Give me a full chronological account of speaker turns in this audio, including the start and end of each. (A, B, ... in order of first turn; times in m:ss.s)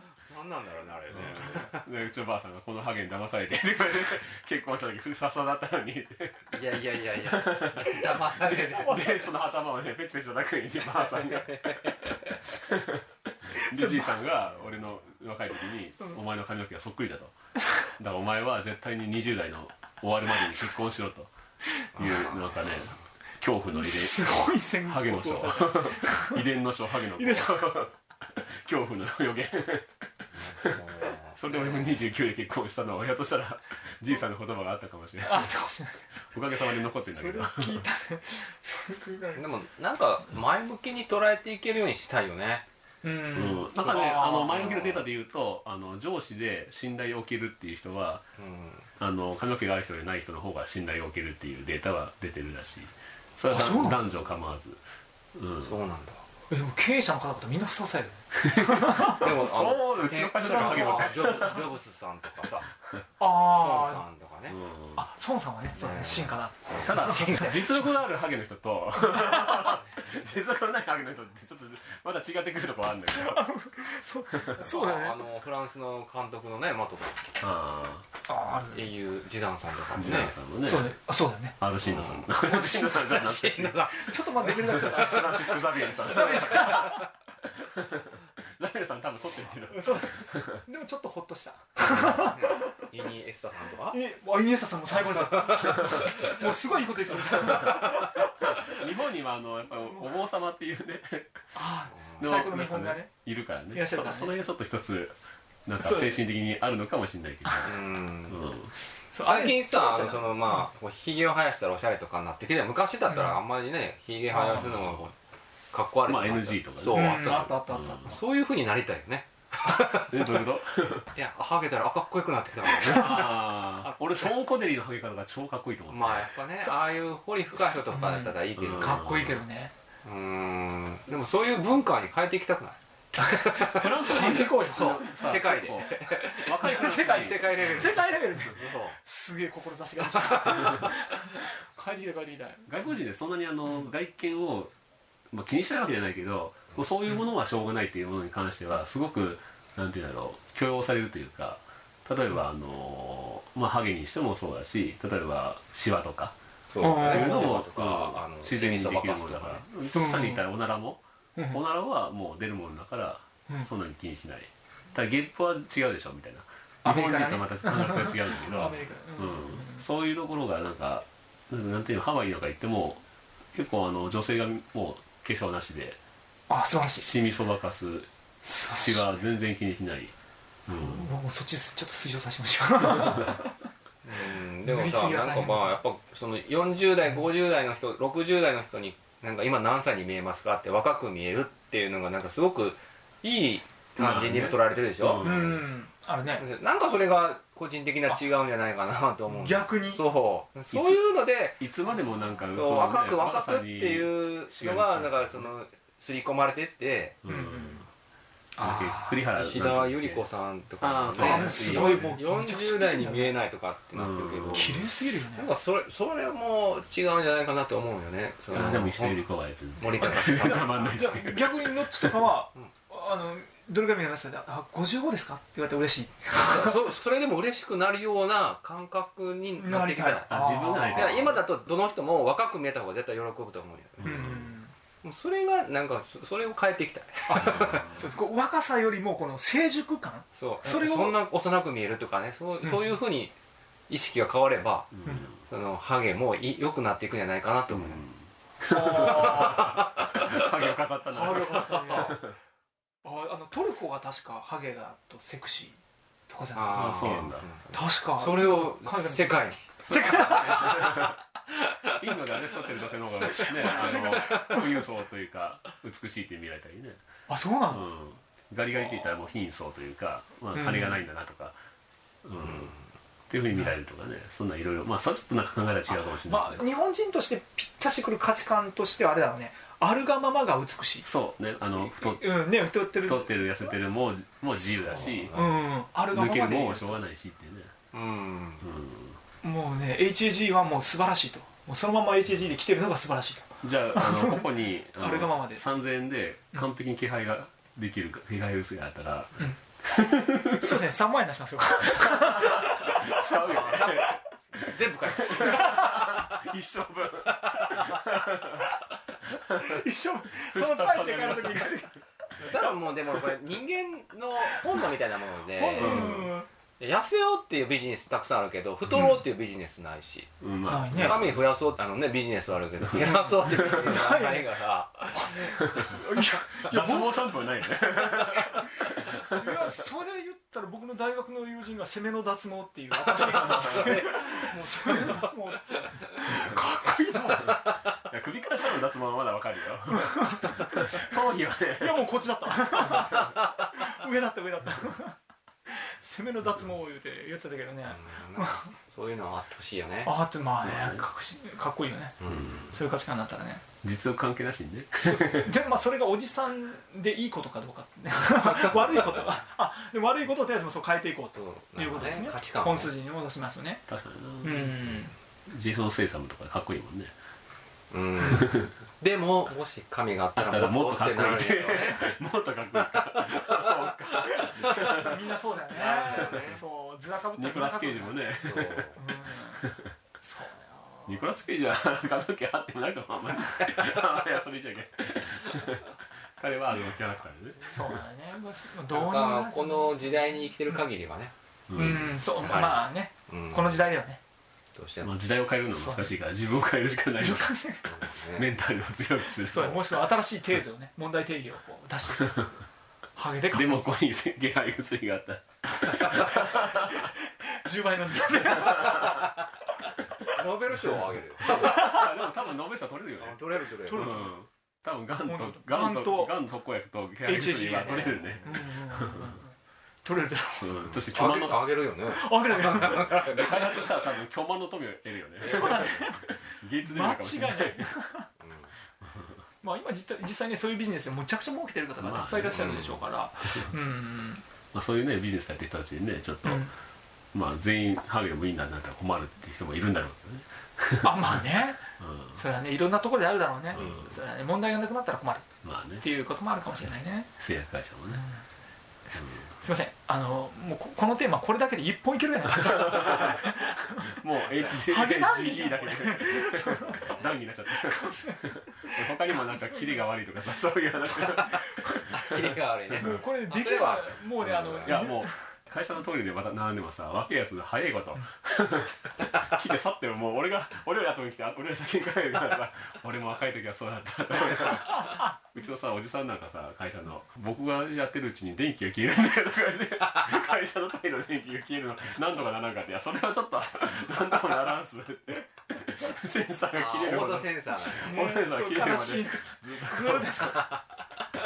0:00.3-0:01.8 A
0:01.1-0:17.3 B
0:06.5-0:09.1 A
0:08.7-0:09.3 C
0:11.0-0:12.3 A
0:13.7-0:14.2 C
0:17.9-0:21.3 B
0:21.9-0:35.6 B
0:22.0-0:22.5 A
0:23.7-0:26.4 C
0:27.2-0:27.6 C
0:30.4-0:32.0 A
0:35.2-0:39.4 C
0:36.2-0:37.8 B
0:39.4-0:42.6 A
0:43.0-0:44.8 C
0:43.3-0:48.2 B
0:44.4-0:45.0 A
0:48.4-0:48.9 A
0:49.0-0:54.8 B
0:53.5-0:54.0 C
0:55.4-0:55.7 B
0:55.6-0:56.2 A
0:56.5-0:59.3 C
0:58.4-1:01.7 B
0:59.0-1:02.7 A
1:00.4-1:01.7 C
1:03.2-1:04.0 C
1:03.2-1:04.6 A
1:04.5-1:05.0 B
1:04.9-1:08.0 C
1:05.8-1:06.9 A
1:06.8-1:13.4 B
1:09.0-1:09.5 C
1:09.5-1:10.2 A
1:13.1-1:15.2 C
1:14.3-1:14.7 B
1:14.6-1:17.4 A
1:17.4-1:18.1 B
1:18.3-1:18.9 C
1:18.6-1:20.4 A
1:19.9-1:20.9 B
1:20.6-1:21.6 C
1:21.6-1:30.6 B
1:21.8-1:27.0 A
1:23.9-1:27.0 C
1:29.7-1:32.8 C
1:31.8-1:34.0 A
1:33.8-1:38.2 C
1:35.0-1:36.2 A
1:37.3-1:41.4 B
1:39.8-1:40.1 C
1:41.6-1:43.1 C
1:41.9-1:42.3 A
1:42.2-1:48.7 B
1:43.7-1:44.4 C
1:45.8-1:46.2 C
1:47.6-1:48.4 A
1:49.1-1:50.6 C
1:49.2-1:55.1 A
1:53.1-1:53.4 C
1:54.3-1:54.8 C
1:54.6-1:55.0 B
1:55.7-2:00.4 A
1:56.0-1:58.1 B
1:56.9-1:58.3 C
2:00.0-2:01.1 B
2:01.1-2:03.3 A
2:02.6-2:06.3 B
2:05.9-2:09.1 A
2:07.5-2:09.7 C
2:08.6-2:09.4 B
2:10.0-2:19.0 A
2:13.5-2:15.8 C
2:13.5-2:18.0 B
2:16.4-2:22.7 C
2:20.5-2:20.8 A
2:22.7-2:24.7 B
2:25.3-2:53.0 B
2:36.7-2:39.6 A
2:36.8-2:37.5 C
2:39.9-2:40.4 C
2:46.8-2:49.8 C
2:53.5-2:56.0 B
2:56.5-2:57.1 C
2:57.0-3:00.1 B
2:58.4-2:59.1 C
3:00.7-3:01.1 B
3:00.7-3:03.6 C
3:04.0-3:15.6 A
3:04.6-3:05.8 C
3:14.0-3:15.6 B
3:15.1-3:16.4 C
3:16.4-3:21.6 A
3:19.3-3:20.0 C
3:20.7-3:21.0 B
3:21.6-3:25.5 B
3:22.5-3:27.2 A
3:27.2-3:27.9 B
3:27.2-3:27.9 C
3:28.6-3:29.2 C
3:28.6-3:30.2 B
3:29.4-3:39.2 A
3:30.8-3:32.2 B
3:31.2-3:33.4 C
3:33.9-3:34.8 B
3:34.5-3:35.5 C
3:38.5-3:42.3 B
3:39.8-3:41.0 A
3:40.0-3:46.9 C
3:46.3-3:54.4 A
3:49.6-3:51.3 C
3:50.3-3:51.4 B
3:54.0-3:54.4 B
3:54.0-3:54.7 C
3:55.0-3:58.0 A
3:57.3-4:01.2 C
3:57.4-3:57.9 B
4:00.4-4:03.4 A
4:03.9-4:08.1 A
4:05.0-4:05.4 B
4:07.7-4:12.4 B
4:08.7-4:09.7 C
4:09.0-4:10.0 A
4:11.1-4:12.3 C
4:13.0-4:20.7 C
4:16.5-4:21.1 A
4:16.7-4:17.5 B
4:19.8-4:21.2 B
4:21.8-4:22.6 A
4:21.8-4:27.0 B
4:23.4-4:24.6 A
4:23.6-4:24.6 C
4:27.3-4:27.9 C
4:27.7-4:31.6 B
4:30.5-4:31.0 C
4:32.2-4:32.7 B
4:32.4-4:32.8 A
4:33.3-4:36.6 B
4:35.9-4:41.1 C
4:41.0-4:47.7 B
4:41.8-4:43.8 C
4:44.7-4:45.5 A
4:45.3-4:47.0 C
4:47.9-4:48.7 A
4:48.6-4:49.2 B
4:49.4-4:55.6 C
4:53.6-5:00.9 B
5:00.4-5:03.9 C
5:01.8-5:08.7 B
5:03.5-5:04.0 A
5:04.6-5:06.3 A
5:09.3-5:09.8 B
5:09.6-5:12.0 C
5:10.4-5:11.9 B
5:12.4-5:20.4 A
5:12.5-5:13.0 B
5:15.6-5:16.5 C
5:15.7-5:16.2 B
5:20.4-5:21.4 B
5:20.7-5:21.3 C
5:20.9-5:25.7 A
5:22.8-5:23.6 B
5:23.0-5:24.5 C
5:25.1-5:27.3 C
5:26.6-5:29.5 B
5:28.4-5:37.7 C
5:33.0-5:36.5 A
5:33.3-5:34.0 B
5:37.8-5:43.3 B
5:41.8-5:48.7 C
5:47.9-5:50.1 A
5:50.0-5:53.6 C
5:50.6-5:51.0 B
5:52.2-5:52.7 A
5:52.2-5:52.7 B
5:53.8-5:55.6 B
5:55.0-6:03.8 C
6:01.4-6:02.9 A
6:03.9-6:05.0 B
6:04.4-6:05.1 C
6:05.5-6:07.1 B
6:07.9-6:12.1 A
6:08.2-6:08.6 B
6:10.4-6:15.3 B
6:14.4-6:19.6 C
6:15.7-6:16.6 A
6:17.3-6:19.0 B
6:18.4-6:19.0 A
6:19.6-6:19.9 B
6:20.2-6:21.3 C
6:21.1-6:28.0 B
6:27.7-6:30.8 C
6:28.9-6:31.3 A
6:31.7-6:32.2 B
6:31.7-6:34.2 C
6:32.4-6:33.8 A
6:34.8-6:35.1 A
6:35.0-6:37.6 B
6:35.7-6:36.1 C
6:37.2-6:38.0 C
6:37.8-6:38.5 A
6:38.3-6:40.1 B
6:39.4-6:42.5 C
6:43.1-6:44.0 C
6:43.5-6:47.1 B
6:46.4-6:50.4 C
6:50.3-6:51.9 A
6:51.4-6:59.4 B
6:51.5-6:51.9 C
6:53.2-6:54.2 A
6:53.9-6:54.3 C
6:55.2-6:56.4 C
6:57.2-7:00.8 C
6:57.5-6:58.6 A
7:00.6-7:01.8 B
7:00.8-7:03.8 A
7:02.0-7:03.5 C
7:02.6-7:07.9 B
7:05.4-7:08.3 C
7:05.5-7:06.0 A
7:08.4-7:08.7 A
7:09.6-7:14.4 C
7:12.0-7:13.0 B
7:12.5-7:13.0 A
7:14.7-7:16.7 B
7:16.4-7:16.7 C
7:17.3-7:21.5 B
7:21.0-7:27.3 C
7:22.0-7:22.4 B
7:23.7-7:24.1 B
7:25.6-7:26.0 B
7:27.4-7:28.2 B
7:28.1-7:28.4 C
7:29.1-7:29.5 B
7:29.5-7:34.2 C
7:32.6-7:33.5 B
7:34.2-7:43.2 B
7:34.4-7:35.0 A
7:34.8-7:37.1 C
7:36.9-7:37.3 A
7:37.7-7:40.1 C
7:41.2-7:41.9 C
7:42.1-7:45.0 A
7:43.0-7:45.5 C
7:44.4-8:10.8 B
8:06.7-8:08.2 A
8:08.0-8:10.7 C